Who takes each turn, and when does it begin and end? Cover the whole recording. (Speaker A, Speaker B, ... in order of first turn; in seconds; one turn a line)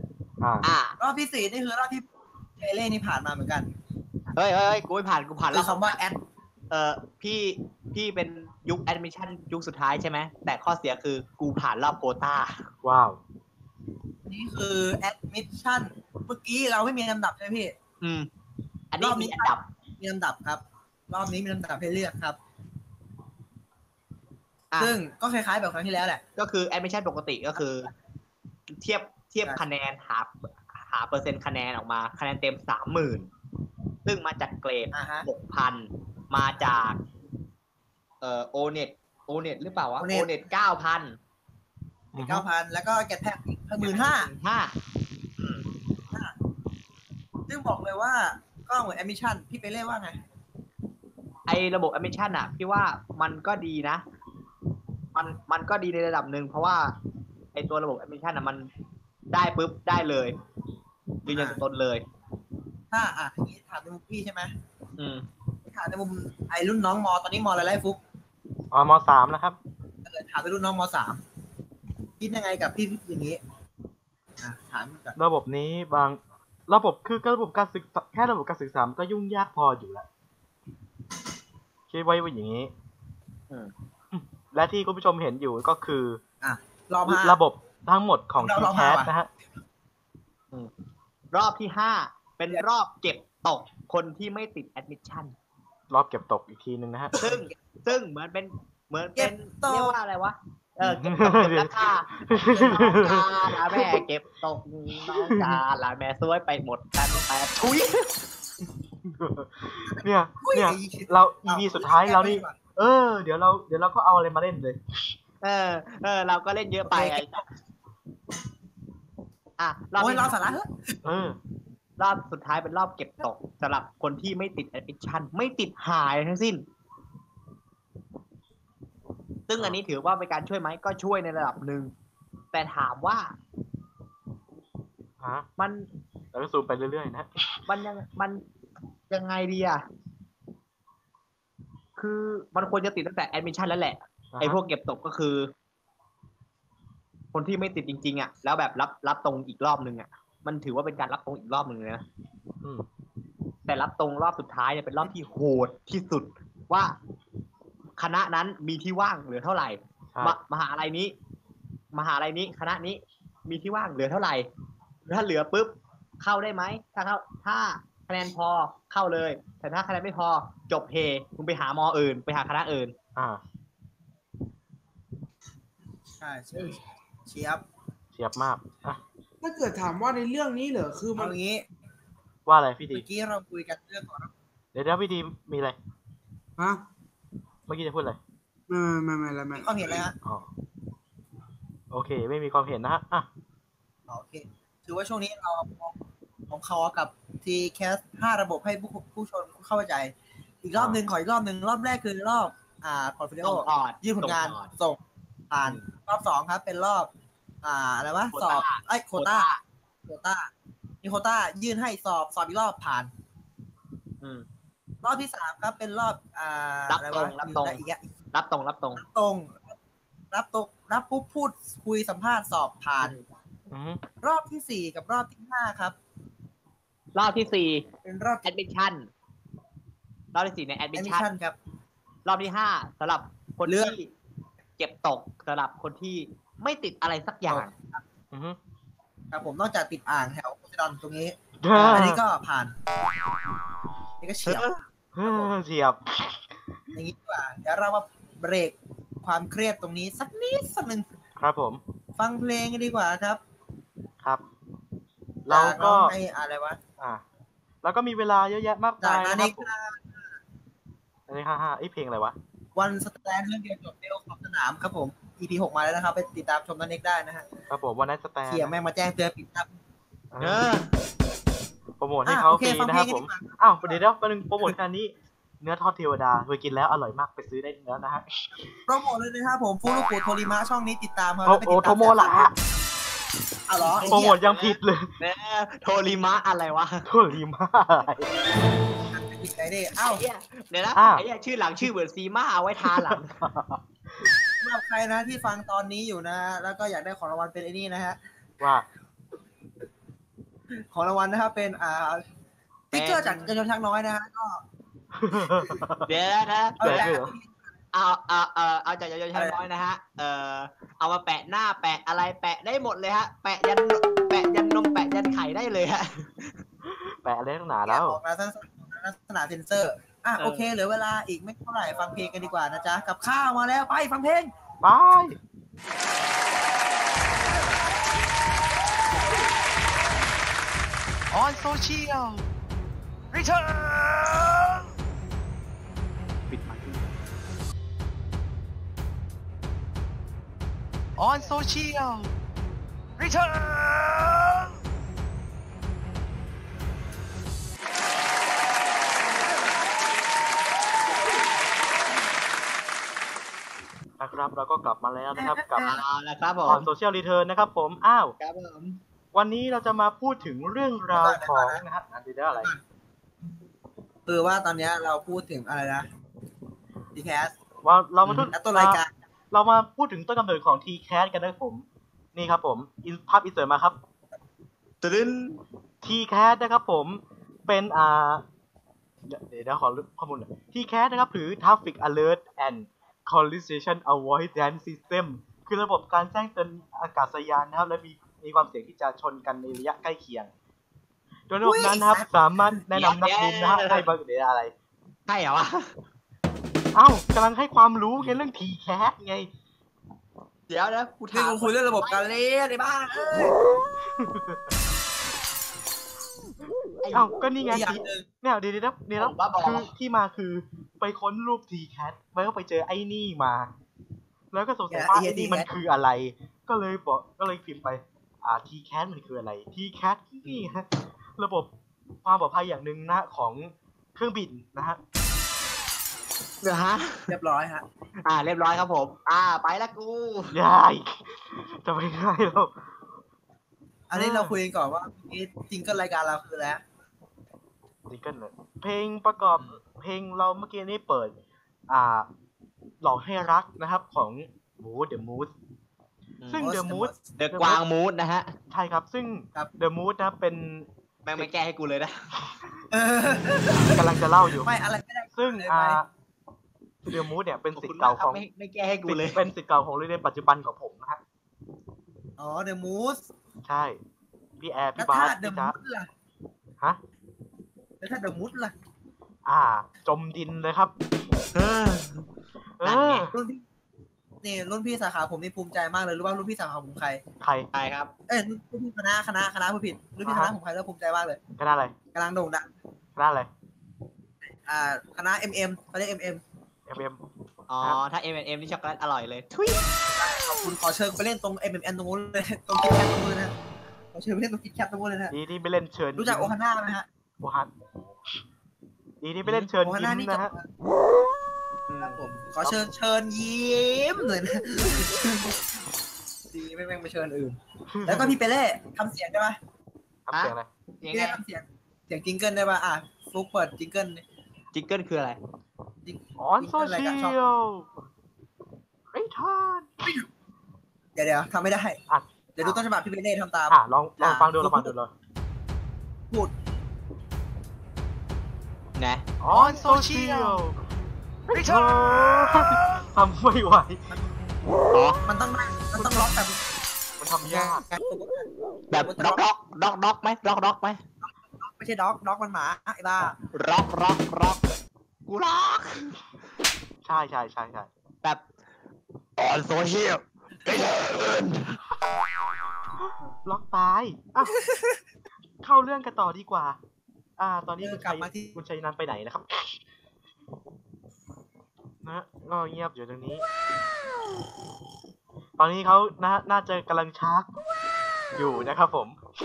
Speaker A: 0.4-0.7
Speaker B: 0.6-0.9
Speaker C: 1.0-2.0
Speaker C: 2.6-3.7
Speaker B: 4.3-6.0
Speaker C: 5.5-6.2
Speaker B: 6.7-12.7
Speaker A: 12.8-13.2
Speaker C: 14.2-17.7
Speaker B: 18.0-18.3
Speaker B: 18.9-19.6
Speaker C: 19.0-22.4
Speaker C: 24.8-26.2
Speaker B: 26.4-27.9
Speaker B: 28.7-33.3
Speaker B: 34.0-37.0
Speaker C: 34.9-35.3
Speaker B: 38.2-41.2
Speaker C: 40.0-40.3
Speaker A: 42.1-42.5
Speaker C: 42.2-44.3
Speaker B: 43.8-44.7
Speaker C: 47.5-50.2
Speaker B: 51.5-54.0
Speaker B: 55.1-57.0
Speaker B: 57.5-58.7
Speaker B: 59.3-60.4
Speaker B: 61.2-62.0
Speaker C: 61.3-61.6
Speaker C: 62.9-64.5
Speaker B: 65.0-65.2
Speaker C: 65.7-68.0
Speaker A: 68.7-69.6
Speaker C: 70.0-71.2
Speaker C: 72.2-73.4
Speaker C: 74.4-75.2
Speaker A: 75.2-80.0
Speaker A: 81.9-82.7
Speaker A: 84.1-86.2
Speaker C: 86.4-87.4
Speaker A: 87.0-89.3
Speaker C: 88.4-89.1
Speaker B: 91.3-95.3
Speaker A: 95.9-97.2
Speaker C: 97.1-97.5
Speaker B: 97.2-108.3
Speaker C: 99.2-99.9
Speaker A: 100.8-101.7
Speaker A: 102.2-104.0
Speaker C: 102.5-103.1
Speaker A: 105.0-105.6
Speaker A: 109.0-114.8
Speaker C: 109.9-112.5
Speaker B: 115.4-117.4
Speaker C: 116.8-117.4
Speaker B: 119.6-120.4
Speaker C: 120.0-120.9
Speaker A: 121.0-121.4
Speaker B: 122.0-126.6
Speaker B: 129.5-131.9
Speaker B: 132.5-133.3
Speaker A: 135.2-135.5
Speaker B: 135.6-135.9
Speaker A: 136.3-137.6
Speaker B: 137.7-138.4
Speaker B: 139.1-139.8
Speaker B: 142.0-145.5
Speaker A: 144.3-144.6
Speaker B: 147.3-152.0
Speaker B: 153.7-156.9
Speaker B: 158.0-161.1
Speaker B: 161.9-164.5
Speaker B: 165.1-172.9
Speaker A: 173.2-173.4
Speaker C: 176.2-177.6
Speaker A: 178.1-179.0
Speaker D: 179.4-181.3
Speaker C: 181.2-181.6
Speaker A: 182.4-183.0
Speaker C: 182.9-184.3
Speaker A: 184.7-185.8
Speaker A: 187.7-188.2
Speaker D: 188.7-190.0
Speaker C: 189.5-190.1
Speaker A: 191.9-193.3
Speaker C: 194.1-195.9
Speaker C: 196.5-205.0
Speaker B: 203.4-204.7
Speaker C: 205.5-207.1
Speaker C: 207.6-209.5
Speaker B: 208.3-209.6
Speaker C: 210.1-210.5
Speaker C: 211.0-213.1
Speaker B: 214.2-214.4
Speaker C: 215.0-218.1
Speaker B: 216.9-217.8
Speaker B: 218.3-219.0
Speaker C: 218.9-219.7
Speaker C: 220.3-223.1
Speaker A: 223.7-224.0
Speaker C: 224.2-225.9
Speaker B: 227.1-227.9
Speaker C: 228.0-228.5
Speaker B: 228.4-229.1
Speaker B: 230.3-231.2
Speaker C: 230.9-231.6
Speaker B: 232.2-234.1
Speaker C: 233.7-233.9
Speaker B: 234.8-237.7
Speaker C: 237.5-238.0
Speaker A: 238.3-238.6
Speaker C: 239.3-242.7
Speaker A: 241.6-242.2
Speaker C: 244.2-245.5
Speaker B: 244.4-244.8
Speaker A: 245.1-246.4
Speaker C: 246.9-251.1
Speaker A: 251.4-251.8
Speaker C: 252.2-253.4
Speaker A: 255.4-256.1
Speaker C: 255.5-256.8
Speaker A: 257.8-259.7
Speaker C: 259.0-260.0
Speaker A: 261.3-262.3
Speaker C: 262.8-267.4
Speaker A: 267.7-268.7
Speaker C: 268.5-269.7
Speaker A: 270.3-270.7
Speaker B: 270.4-270.9
Speaker A: 272.0-278.2
Speaker C: 272.2-274.0
Speaker C: 278.9-282.4
Speaker A: 281.4-282.6
Speaker C: 283.7-284.4
Speaker B: 283.9-287.1
Speaker A: 284.0-285.1
Speaker A: 287.1-288.3
Speaker C: 289.1-290.2
Speaker B: 290.0-293.4
Speaker A: 290.9-291.2
Speaker A: 292.8-294.3
Speaker C: 294.6-298.2
Speaker A: 298.6-298.8
Speaker C: 300.9-302.2
Speaker C: 302.9-304.6
Speaker B: 302.9-303.5
Speaker A: 305.1-306.1
Speaker C: 305.4-305.7
Speaker B: 306.1-307.1
Speaker C: 306.8-307.5
Speaker A: 306.8-307.3
Speaker B: 307.9-316.6
Speaker A: 316.8-318.2
Speaker C: 317.9-324.5
Speaker B: 320.4-320.7
Speaker A: 324.8-325.4
Speaker E: 331.3-332.4
Speaker E: 333.3-334.8
Speaker B: 336.5-337.0
Speaker E: 341.2-342.3
Speaker E: 343.2-344.7
Speaker A: 354.2-355.9
Speaker C: 355.4-356.0
Speaker B: 355.8-356.9
Speaker A: 356.6-358.3
Speaker B: 358.4-359.0
Speaker A: 359.3-362.7
Speaker C: 361.1-361.8
Speaker C: 362.5-362.8
Speaker C: 364.3-366.1
Speaker C: 367.1-367.5
Speaker A: 367.8-369.0
Speaker B: 368.2-368.5
Speaker C: 368.5-369.1
Speaker A: 369.5-374.0
Speaker B: 375.0-375.6
Speaker A: 376.0-378.4
Speaker A: 379.3-390.5
Speaker A: 391.5-394.7
Speaker C: 391.6-392.8
Speaker B: 392.9-394.1
Speaker B: 395.3-395.9
Speaker A: 396.9-399.5
Speaker B: 400.7-402.2
Speaker C: 401.3-403.5
Speaker A: 404.2-404.6
Speaker B: 407.0-407.3
Speaker A: 407.1-413.7
Speaker C: 407.6-408.2
Speaker B: 409.2-409.9
Speaker A: 414.5-421.7
Speaker C: 414.9-415.7
Speaker A: 422.2-425.0
Speaker B: 426.6-427.3
Speaker C: 427.3-427.8
Speaker B: 428.2-430.6
Speaker A: 430.5-432.7
Speaker C: 434.1-436.8
Speaker A: 434.1-434.6
Speaker A: 438.1-441.4
Speaker A: 441.9-442.3
Speaker A: 443.0-445.5
Speaker A: 446.5-447.8
Speaker C: 446.5-447.2
Speaker B: 447.4-448.5
Speaker A: 448.7-451.5
Speaker B: 451.2-452.1
Speaker C: 452.9-454.0
Speaker A: 453.9-454.7
Speaker C: 454.6-456.0
Speaker A: 455.4-456.1
Speaker A: 457.1-458.4
Speaker B: 457.7-459.4
Speaker A: 459.1-461.2
Speaker C: 462.4-463.3
Speaker A: 463.6-464.0
Speaker A: 464.6-465.7
Speaker C: 465.0-466.1
Speaker C: 468.0-468.7
Speaker A: 469.4-470.9
Speaker B: 471.5-472.3
Speaker A: 472.8-473.3
Speaker B: 472.8-473.3
Speaker C: 473.3-473.6
Speaker C: 474.4-477.2
Speaker A: 477.4-477.7
Speaker B: 477.7-478.1
Speaker C: 478.3-481.4
Speaker A: 480.2-480.5
Speaker A: 481.6-481.9
Speaker C: 482.1-482.7
Speaker A: 483.1-483.5
Speaker C: 484.6-486.4
Speaker A: 486.9-487.2
Speaker B: 487.7-489.9
Speaker C: 490.1-493.5
Speaker C: 494.1-495.3
Speaker A: 495.3-496.5
Speaker C: 496.1-497.1
Speaker A: 497.4-498.1
Speaker A: 499.2-500.5
Speaker B: 499.4-499.7
Speaker C: 499.8-500.6
Speaker B: 501.9-502.2
Speaker C: 502.0-505.6
Speaker C: 506.5-509.6
Speaker A: 507.9-508.3
Speaker A: 510.3-510.7
Speaker B: 510.3-511.4
Speaker C: 511.1-514.2
Speaker B: 514.7-515.4
Speaker C: 516.0-517.4
Speaker A: 516.4-517.9
Speaker A: 519.1-520.0
Speaker C: 521.1-522.0
Speaker A: 522.1-522.8
Speaker C: 522.6-524.9
Speaker A: 523.7-525.1
Speaker B: 529.0-529.3
Speaker A: 529.4-530.8
Speaker E: 529.5-530.6
Speaker E: 531.5-531.9
Speaker A: 531.5-534.0
Speaker B: 534.9-535.2
Speaker C: 535.2-536.5
Speaker A: 537.2-537.8
Speaker C: 537.5-539.4
Speaker B: 538.9-541.0
Speaker C: 541.2-543.4
Speaker B: 543.5-544.6
Speaker B: 545.3-546.2
Speaker A: 547.0-547.9
Speaker B: 549.4-551.6
Speaker A: 553.0-554.5
Speaker A: 555.6-556.8
Speaker A: 557.4-559.7
Speaker C: 557.8-558.6
Speaker A: 562.0-563.4
Speaker A: 565.6-567.5
Speaker A: 568.3-569.2